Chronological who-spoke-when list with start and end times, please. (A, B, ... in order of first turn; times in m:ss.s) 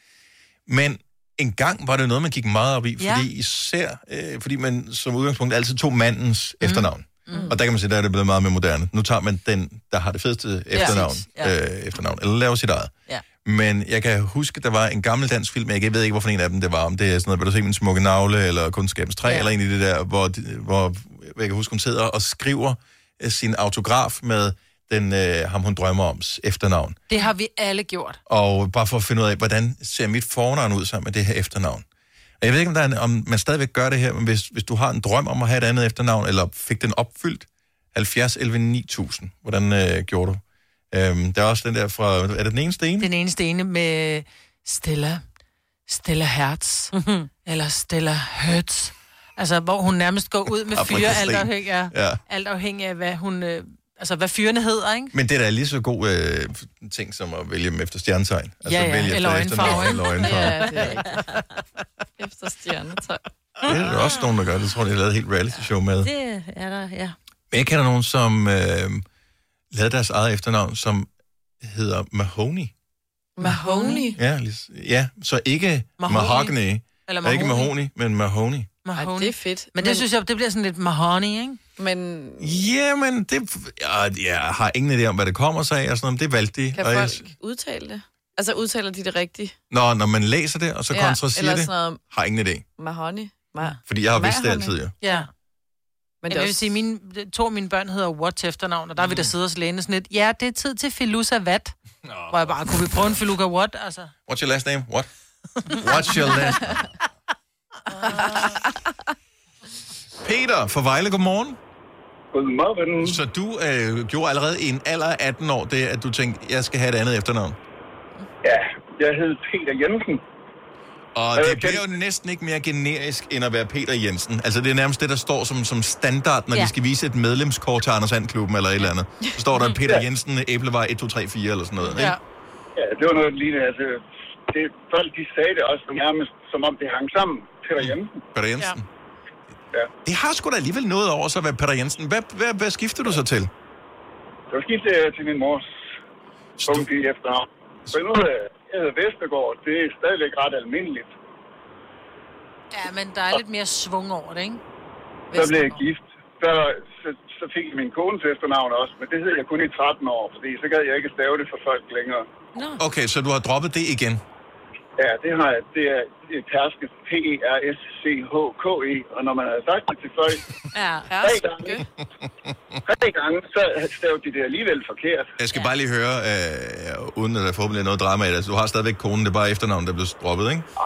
0:00.7-0:12.9 A
0:03.0-0:03.3 B
0:06.6-0:07.5 B
0:07.3-0:07.6 C
0:10.7-0:11.0 C
0:10.8-0:11.5 B
0:13.4-0:27.0 A
0:27.1-0:28.2 B
0:28.3-0:31.8 A
0:32.4-0:43.1 A
0:43.0-0:45.2 B
0:45.9-0:46.9 B
0:46.9-0:47.3 D
0:47.4-0:55.1 B
0:50.7-0:52.2 A
0:55.1-1:00.9 A
0:58.6-1:00.6 B
0:59.6-1:01.2 C
1:00.8-1:01.4 D
1:02.2-1:03.2 C
1:03.6-1:04.2 D
1:03.6-1:06.1 A
1:06.0-1:07.1 D
1:07.5-1:09.0 A
1:09.7-1:11.1 A
1:11.6-1:12.7 A
1:13.4-1:14.2 C
1:13.4-1:14.0 B
1:14.2-1:18.7 A
1:16.0-1:16.5 B
1:17.0-1:17.7 B
1:18.8-1:21.6 B
1:19.0-1:20.0 C
1:21.8-1:22.5 C
1:22.4-1:27.3 A
1:26.7-1:29.6 C
1:29.7-1:32.6 A
1:30.9-1:32.0 C
1:32.8-1:35.2 C
1:33.8-1:34.9 A
1:35.0-1:35.3 B
1:36.2-1:36.8 C
1:36.3-1:41.7 B
1:39.0-1:39.3 A
1:42.0-1:43.1 A
1:42.3-1:44.1 B
1:44.3-1:45.1 A
1:45.7-1:46.8 A
1:48.0-1:48.6 B
1:48.0-1:48.7 C
1:50.2-1:51.6 A
1:52.3-1:53.2 E
1:53.0-1:57.6 A
1:58.4-2:00.2 E
2:01.1-2:12.2 A
2:01.3-2:01.8 E
2:11.9-2:12.2 B
2:12.8-2:18.1 E
2:17.8-2:18.8 A
2:20.0-2:23.5 A
2:24.5-2:25.7 E
2:26.6-2:26.9 A
2:26.6-2:31.1 E
2:32.7-2:34.6 B
2:35.3-2:35.6 C
2:35.3-2:42.2 E
2:35.4-2:35.8 B
2:42.5-2:42.8 D
2:42.8-2:44.2 A
2:45.0-2:50.4 E
2:50.7-2:51.1 D
2:51.1-2:51.8 C
2:51.2-2:51.8 E
2:52.8-2:55.3 E
2:55.4-3:00.6 A